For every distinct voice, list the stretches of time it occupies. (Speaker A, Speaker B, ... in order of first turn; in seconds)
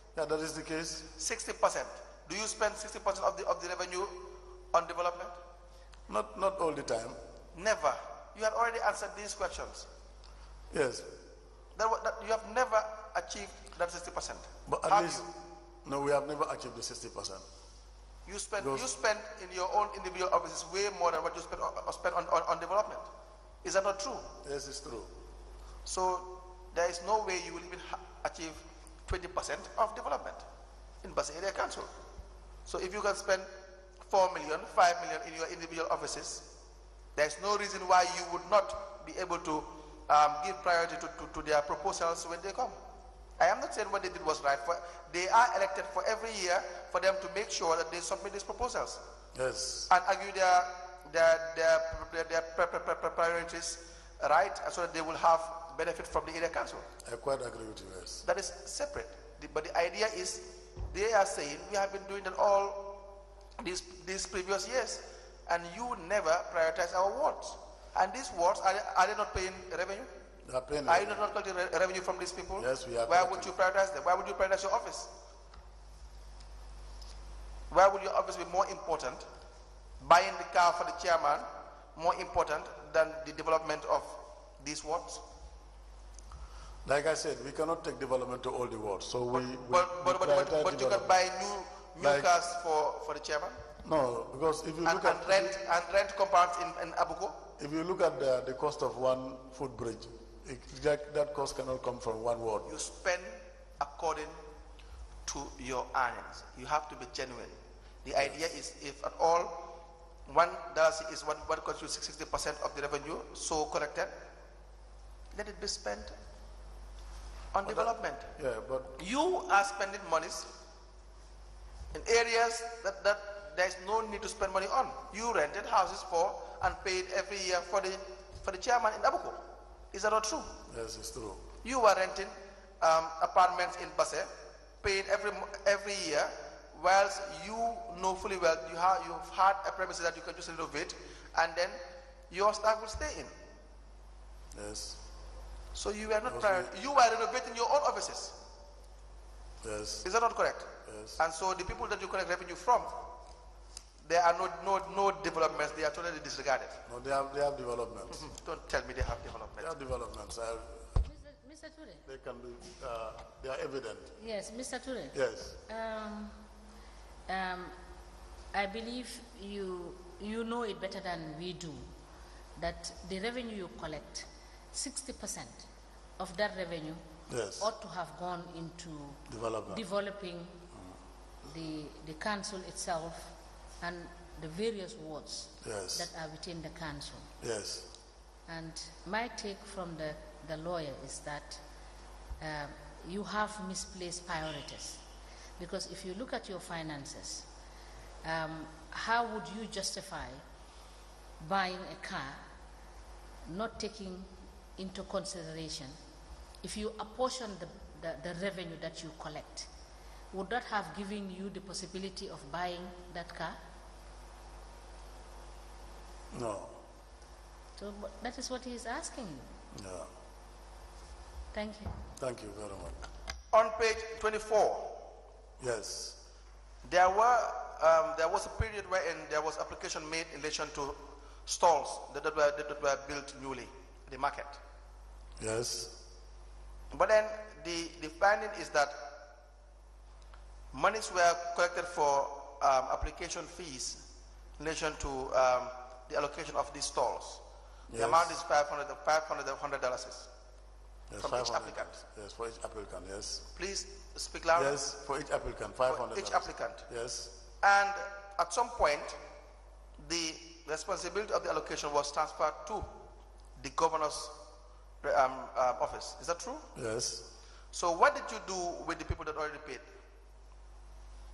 Speaker A: 0.1-1.1, 6.1-7.2, 10.7-11.1, 14.7-15.3, 15.8-17.4, 18.6-18.9, 24.4-25.1, 49.3-49.9, 57.0-58.2, 70.5-71.2, 72.6-73.5, 86.8-91.2, 92.0-92.3, 93.8-95.6, 97.6-102.7, 117.7-119.0, 130.7-131.5, 144.5-145.0, 146.3-146.7, 149.6-150.1, 150.8-151.2, 156.9-158.2, 159.6-160.9, 162.1-164.2, 165.1-165.6, 177.3-177.7, 179.3-179.8, 185.6-186.1, 187.4-187.9, 216.3-216.8, 219.7-220.1, 222.2-223.0, 225.6-226.2, 235.4-235.9, 247.9-248.4, 251.1-253.5, 254.6-257.3, 266.8-267.3
Speaker B: 1.2-5.4, 7.5-9.9, 11.8-15.3, 18.3-23.1, 23.6-24.3, 25.9-30.4, 31.0-31.9, 32.7-33.5, 34.1-36.5, 37.1-42.8, 43.4-49.0, 49.9-56.9, 58.2-63.0, 63.6-70.1, 70.9-75.1, 77.7-79.3, 80.0-85.2, 89.3-93.6, 94.8-97.4, 102.7-104.4, 105.2-109.7, 110.3-114.2, 115.3-116.1, 117.5-118.3, 119.0-120.5, 121.9-129.4, 129.9-130.6, 131.6-134.3, 134.8-143.3, 145.7-148.4, 150.0-153.0, 154.0-156.8, 158.1-159.8, 223.5-225.1, 226.8-234.6, 236.9-239.0, 240.7-244.0, 244.6-250.3, 251.2-251.9, 253.6-254.8, 255.9-256.8, 257.6-259.2, 260.0-262.9, 263.6-264.4, 265.0-266.7, 267.7-269.9
Speaker C: 161.0-162.1, 164.2-166.4, 167.3-167.8, 168.5-171.9, 172.6-175.7, 176.2-177.0, 177.6-180.6, 181.4-187.3, 188.5-191.6, 192.4-195.0, 195.6-197.5, 198.2-200.4, 201.4-202.4, 203.5-206.0, 206.6-209.7, 210.3-213.6, 217.8-219.5, 221.5-222.0